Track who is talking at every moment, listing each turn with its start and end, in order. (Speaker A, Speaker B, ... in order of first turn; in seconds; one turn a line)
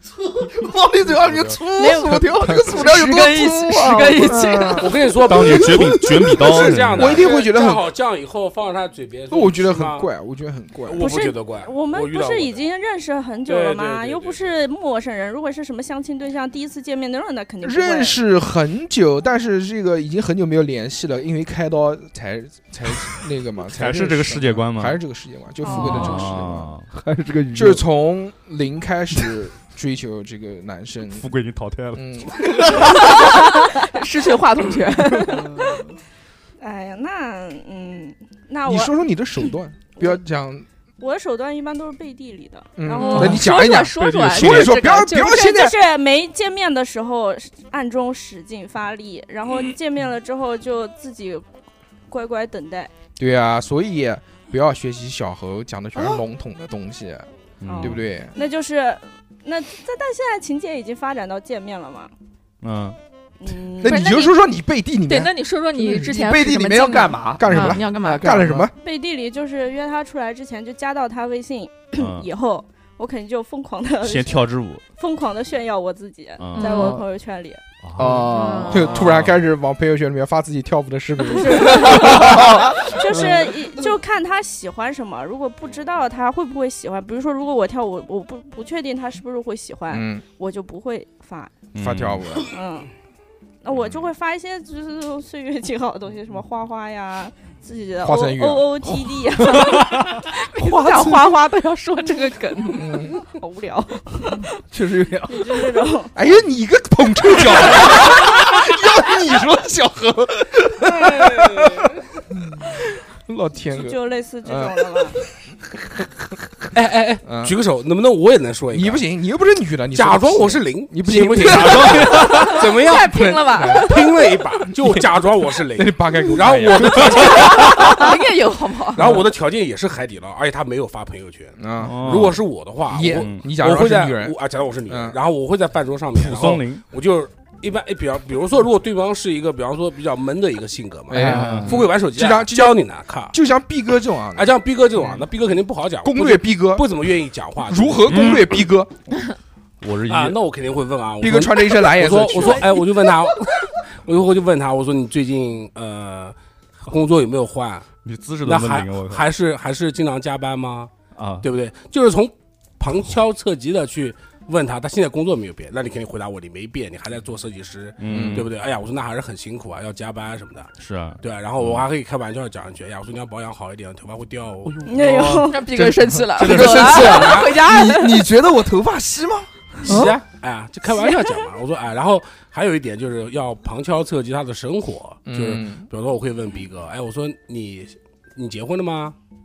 Speaker A: 0.3-4.9
Speaker B: 1.1-1.6
Speaker C: 1.7-2.8
Speaker D: 2.5-5.1
Speaker E: 4.2-4.9
Speaker B: 4.8-10.1
Speaker F: 5.2-7.4
Speaker E: 5.7-7.9
Speaker E: 9.3-11.2
Speaker B: 10.8-12.6
Speaker C: 11.0-18.2
Speaker B: 13.4-14.6
Speaker E: 17.6-26.7
Speaker F: 23.7-25.0
Speaker C: 25.6-26.2
Speaker F: 25.7-26.9
Speaker A: 25.7-26.1
Speaker A: 26.9-27.8
Speaker E: 27.6-31.3
Speaker F: 31.1-32.8
Speaker E: 31.9-32.9
Speaker D: 32.9-35.5
Speaker C: 36.6-40.2
Speaker E: 38.7-40.7
Speaker C: 41.0-43.5
Speaker E: 42.8-45.8
Speaker D: 43.0-45.4
Speaker C: 45.0-51.5
Speaker C: 52.1-52.9
Speaker E: 53.2-57.3
Speaker F: 57.6-58.0
Speaker C: 57.7-62.1
Speaker E: 57.8-58.3
Speaker F: 62.6-63.0
Speaker C: 63.4-64.1
Speaker D: 63.8-64.4
Speaker E: 63.8-65.3
Speaker D: 65.1-68.3
Speaker A: 65.8-68.7
Speaker E: 67.4-68.7
Speaker C: 68.8-74.5
Speaker F: 72.0-72.3
Speaker F: 74.0-74.8
Speaker C: 75.0-77.6
Speaker F: 76.4-76.8
Speaker D: 76.5-77.0
Speaker F: 77.8-78.4
Speaker A: 78.0-78.9
Speaker D: 78.2-79.0
Speaker E: 78.7-82.9
Speaker F: 78.9-79.4
Speaker C: 81.3-91.5
Speaker E: 89.9-90.2
Speaker F: 91.7-92.5
Speaker E: 91.8-92.5
Speaker C: 92.5-92.9
Speaker C: 93.6-100.2
Speaker E: 98.0-99.0
Speaker D: 99.5-99.8
Speaker D: 100.3-103.1
Speaker A: 100.6-101.3
Speaker E: 102.7-103.2
Speaker C: 103.0-104.5
Speaker A: 104.7-105.7
Speaker C: 105.2-106.2
Speaker E: 106.2-111.9
Speaker B: 111.1-111.8
Speaker E: 112.6-115.1
Speaker C: 113.6-115.2
Speaker B: 116.7-119.0
Speaker E: 117.2-117.5
Speaker E: 118.7-125.0
Speaker B: 119.9-128.1
Speaker F: 121.6-122.2
Speaker D: 122.2-124.1
Speaker E: 125.7-127.9
Speaker D: 127.1-129.2
Speaker B: 128.9-143.3
Speaker E: 129.0-129.2
Speaker E: 131.6-132.3
Speaker F: 131.8-132.4
Speaker E: 132.9-134.4
Speaker F: 133.1-133.4
Speaker E: 134.9-135.2
Speaker F: 136.1-136.8
Speaker E: 141.1-144.5
Speaker A: 141.1-141.8
Speaker F: 141.3-141.7
Speaker B: 144.4-148.4
Speaker E: 146.0-146.9
Speaker E: 147.7-148.9
Speaker F: 148.1-148.5
Speaker F: 149.8-150.4
Speaker B: 150.1-156.4
Speaker E: 151.2-152.9
Speaker B: 156.9-157.9
Speaker F: 158.0-159.3
Speaker B: 158.4-160.9
Speaker F: 161.2-161.5
Speaker B: 161.4-174.8
Speaker F: 168.0-168.5
Speaker E: 168.1-168.4
Speaker F: 170.8-171.9
Speaker F: 174.6-177.0
Speaker C: 174.8-175.7
Speaker D: 175.4-178.3
Speaker A: 176.5-180.1
Speaker B: 177.0-177.7
Speaker B: 179.8-189.2
Speaker C: 181.0-181.4
Speaker E: 185.3-185.9